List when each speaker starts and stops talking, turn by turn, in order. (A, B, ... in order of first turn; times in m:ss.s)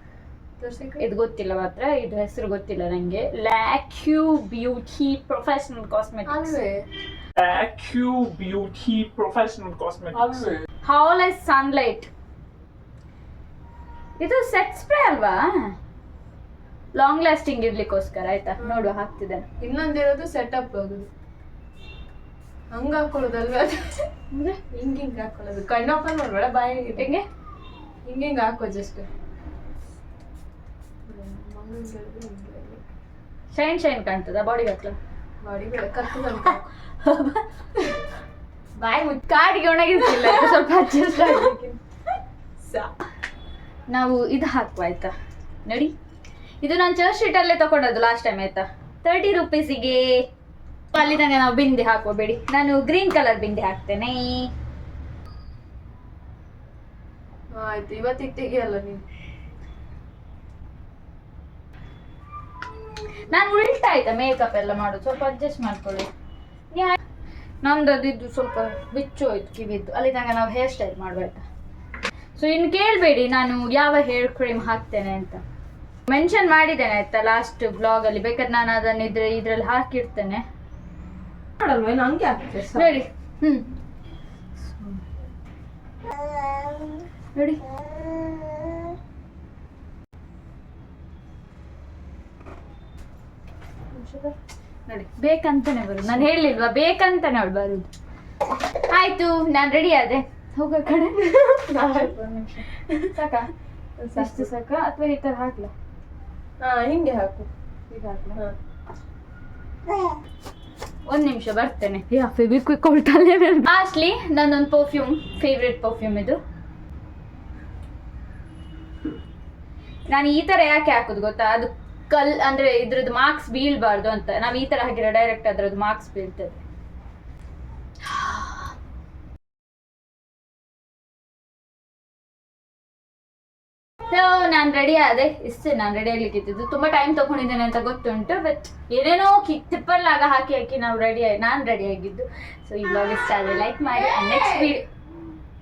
0:00.6-0:01.0 A
0:01.0-0:06.6 B
0:06.2-0:06.8 A
0:07.4-0:10.5 C
0:10.1-0:10.6 A
0:10.8-0:12.1 B
0:14.2-0:15.7 B
0:16.9-0:19.4 B
0:18.6-0:18.9 A
0:19.6-0:21.1 A
0:22.7-0:24.0 A
0:24.3-0:24.6 B
0:24.7-0:27.1 A
0:27.0-0:27.3 B
0:28.0-0:29.1 A
0:31.1-0:32.8 A
0:33.5-0:35.0 B
0:35.4-0:36.6 A
0:37.0-0:37.4 B
0:38.8-0:41.8 B
0:42.6-0:42.9 A
0:43.9-0:45.1 B
0:45.6-0:45.9 B
0:46.6-0:50.1 B
0:50.9-0:54.4 B
0:57.5-0:59.0 A
1:03.3-1:06.1 B
1:06.7-1:07.0 B
1:07.6-1:11.4 B
1:12.4-1:15.4 B
1:16.1-1:20.4 B
1:21.6-1:23.0 A
1:22.7-1:23.7 B
1:27.3-1:27.6 B
1:34.9-1:37.9 B
1:38.9-1:41.3 B
1:41.2-1:42.2 A
1:41.9-1:43.5 B
1:44.0-1:44.5 A
1:44.1-1:45.7 B
1:46.6-1:47.5 A
1:47.9-1:48.4 B
1:51.0-1:56.4 B
2:00.1-2:06.6 B
2:08.0-2:08.7 B
2:14.1-2:24.8 B